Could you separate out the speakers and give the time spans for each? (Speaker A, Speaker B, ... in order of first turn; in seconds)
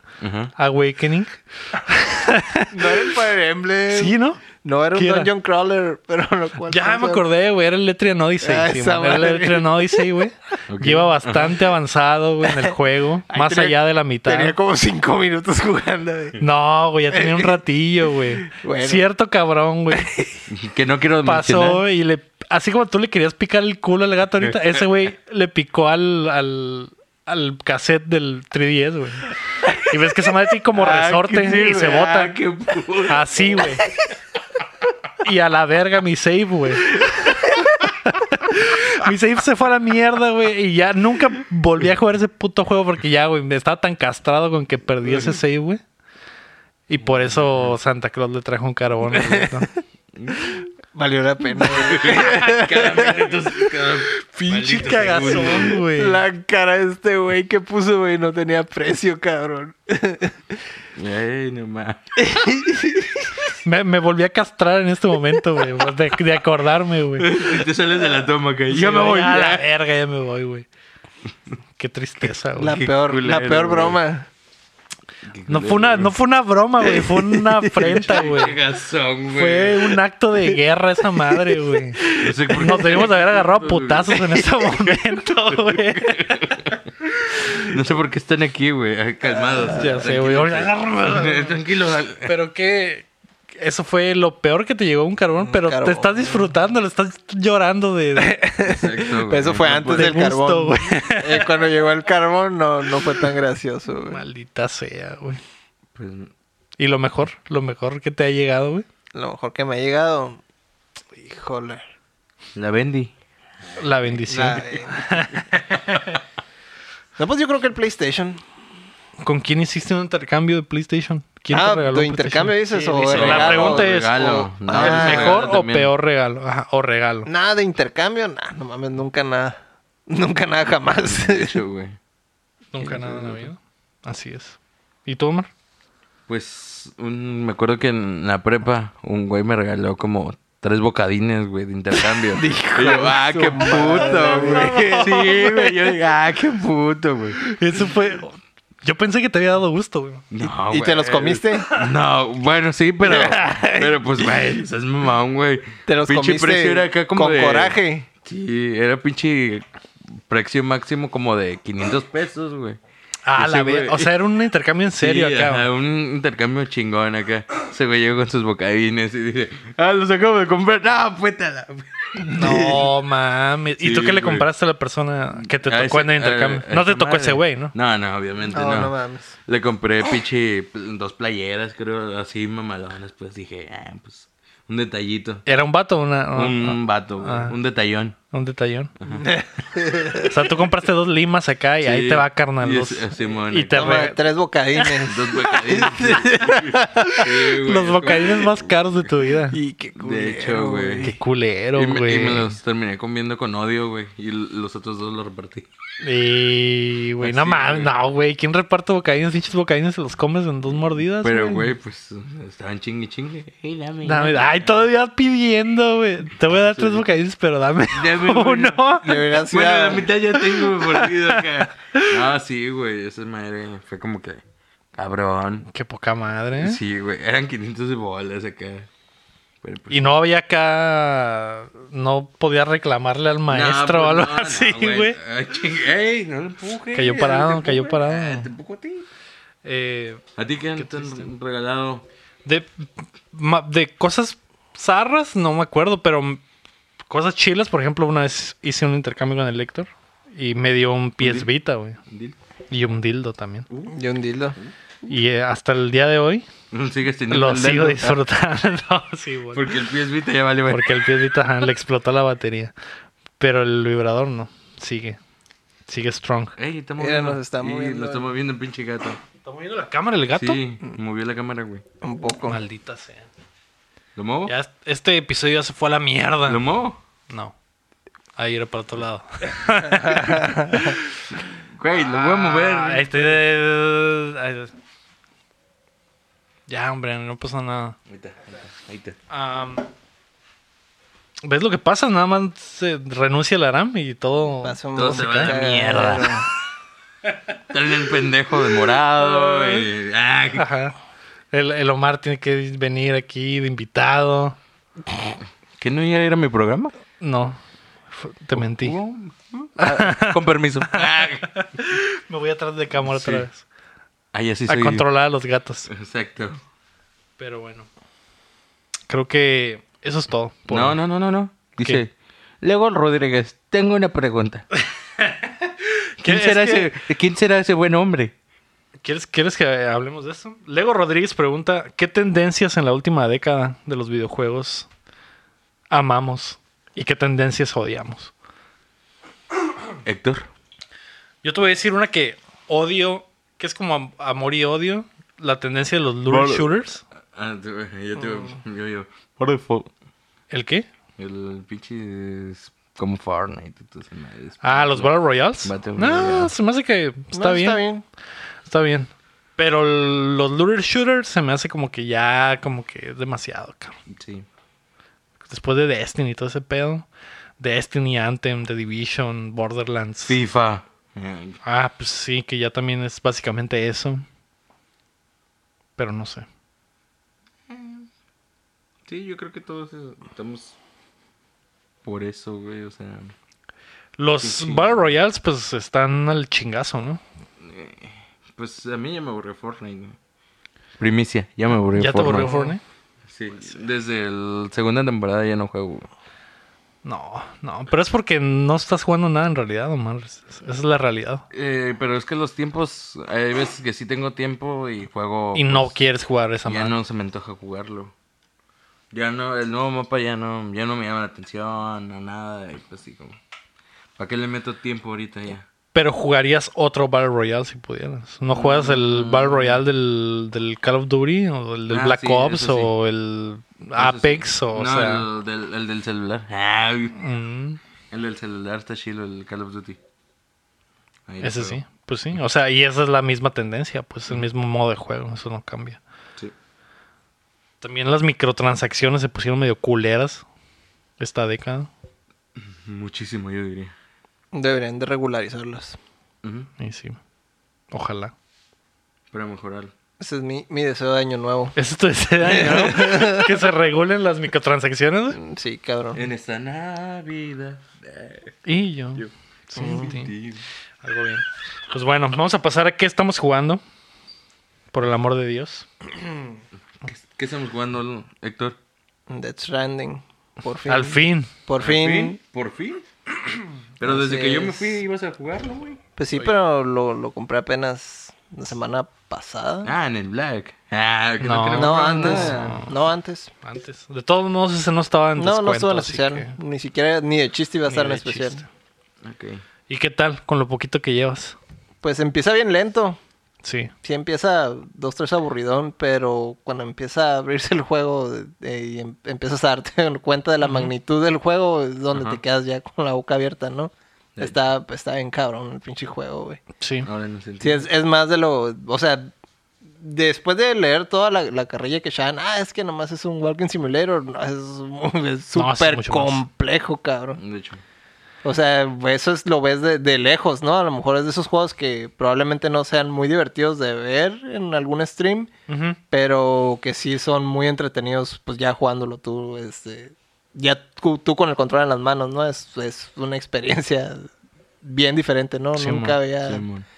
Speaker A: 0.2-0.5, 10.7-11.6, 20.5-21.8, 24.4-24.8, 30.7-33.9, 47.0-47.8, 50.1-50.4, 51.6-55.8, 61.0-62.0, 67.2-69.7, 72.7-74.0, 75.3-76.1, 76.9-80.0, 82.2-84.7, 85.5-86.9, 87.6-92.3, 98.7-100.2, 106.0-106.3, 112.6-113.1, 123.0-125.9, 130.9-132.0, 132.8-133.5, 136.3-147.4, 150.3-162.8, 163.4-164.1, 165.0-172.8, 173.8-174.5, 175.4-178.9, 179.5-185.4, 186.3-188.2, 189.0-189.3, 191.8-194.1, 195.0-199.1, 200.0-201.1, 201.8-205.7, 207.2-207.9, 211.2-214.9, 216.6-217.1, 217.9-224.4, 225.0-225.7, 226.6-228.9, 229.6-230.2, 233.5-239.1, 240.4-242.1, 251.2-251.5, 252.1-252.4, 253.7-254.0, 256.7-258.2, 259.5-261.0, 266.6-269.2, 270.4-271.8, 274.2-274.5, 276.5-277.0, 281.5-283.3, 288.1-289.2, 295.0-296.4, 297.7-300.7, 305.8-306.9, 308.5-311.5, 313.0-313.5, 314.3-315.1, 315.9-316.6, 320.7-324.7, 326.2-328.3, 340.0-340.5, 346.3-346.7, 347.3-349.9, 351.2-356.5, 364.1-364.5, 370.3-371.6, 377.7-378.1, 379.1-380.8, 382.0-383.3, 384.4-385.1, 387.6-390.2, 391.0-392.6, 393.2-396.1, 401.5-406.0, 406.7-408.1, 409.1-413.4, 414.2-415.7, 418.5-419.8, 421.9-422.9, 424.0-427.2, 428.1-430.0, 431.3-431.8, 442.6-443.9, 446.4-446.7, 449.3-449.9, 452.5-452.8, 456.1-458.6, 459.2-460.6, 467.1-468.8, 471.8-476.0, 479.8-482.8, 489.2-489.6, 502.1-502.4, 507.1-507.9, 517.4-517.8, 536.4-536.9
Speaker B: 0.6-3.1, 3.9-4.4, 4.9-5.3, 6.7-14.6, 16.4-20.1, 21.2-32.4, 33.1-33.9, 35.2-37.0, 38.0-45.8, 46.9-49.7, 54.5-56.2, 63.6-67.5, 68.7-70.7, 71.8-72.8, 75.5-78.6, 79.3-86.7, 89.7-91.6, 92.2-98.4, 99.9-101.5, 104.0-105.4, 106.8-108.9, 113.8-116.2, 119.2-127.3, 132.7-135.5, 143.8-145.6, 147.4-150.2, 163.2-165.7, 172.3-177.7, 185.5-187.6, 188.3-188.9, 190.2-194.2, 197.6-199.6, 201.0-202.6, 206.0-211.7, 214.0-219.2, 220.6-222.2, 225.7-226.8, 229.9-235.2, 236.9-238.5, 239.6-240.2, 240.8-241.3, 242.4-246.4, 247.1-252.0, 252.7-253.7, 255.1-256.5, 257.3-259.8, 260.7-262.7, 263.4-265.2, 265.9-266.6, 269.4-270.6, 272.5-273.3, 274.5-276.6, 277.3-277.6, 278.4-281.1, 281.9-284.7, 286.7-288.0, 289.3-289.9, 291.4-295.6, 299.3-299.9, 300.6-300.9, 301.5-304.6, 307.2-307.6, 308.1-309.0, 309.8-313.6, 314.7-315.9, 317.4-317.9, 319.1-321.0, 325.2-325.5, 326.2-326.9, 329.0-334.9, 335.9-338.3, 341.4-347.0, 350.5-350.9, 354.6-357.8, 358.7-363.9, 365.5-367.1, 367.6-370.4, 371.6-374.3, 376.0-376.5, 384.2-387.2, 391.9-392.8, 397.0-401.4, 405.6-406.9, 415.9-425.3, 427.1-427.8, 431.4-436.0, 437.8-440.4, 441.2-441.9, 446.8-447.2, 447.9-448.3, 451.8-455.4, 458.6-460.3, 461.0-463.8, 464.9-465.9, 470.9-471.5, 481.4-482.9, 483.6-486.6, 487.9-488.7, 489.9-491.6, 493.6-493.9, 500.6-500.9, 506.8-507.1, 515.5-516.4, 525.7-526.0, 535.8-536.2
Speaker C: 2.7-7.2, 8.4-10.1, 12.5-12.7, 13.3-16.4, 17.1-17.6, 18.4-19.1, 19.9-20.2, 49.1-49.6, 50.9-53.7, 54.4-60.4, 62.2-63.4, 72.6-74.3, 82.0-82.6, 95.4-96.5, 98.2-104.2, 109.1-110.4, 111.2-111.8, 114.3-115.1, 117.2-118.4, 121.5-125.4, 127.3-129.6, 130.1-131.6, 142.3-145.7, 150.4-151.7, 153.0-154.5, 155.9-158.1, 178.5-179.3, 189.2-190.3, 193.7-197.4, 199.5-201.2, 219.0-220.1, 253.9-254.6, 267.0-268.3, 272.0-272.6, 280.1-280.8, 294.6-296.5, 357.3-358.0, 392.3-392.8, 444.5-446.0, 450.2-451.8, 452.5-453.5, 455.4-456.2, 459.8-460.1, 469.3-472.4, 474.0-475.0, 476.2-479.9, 481.8-483.5, 485.4-488.6, 492.0-493.2, 494.0-506.6, 507.6-509.3, 510.0-517.4, 518.4-525.5, 526.1-534.3, 534.8-536.6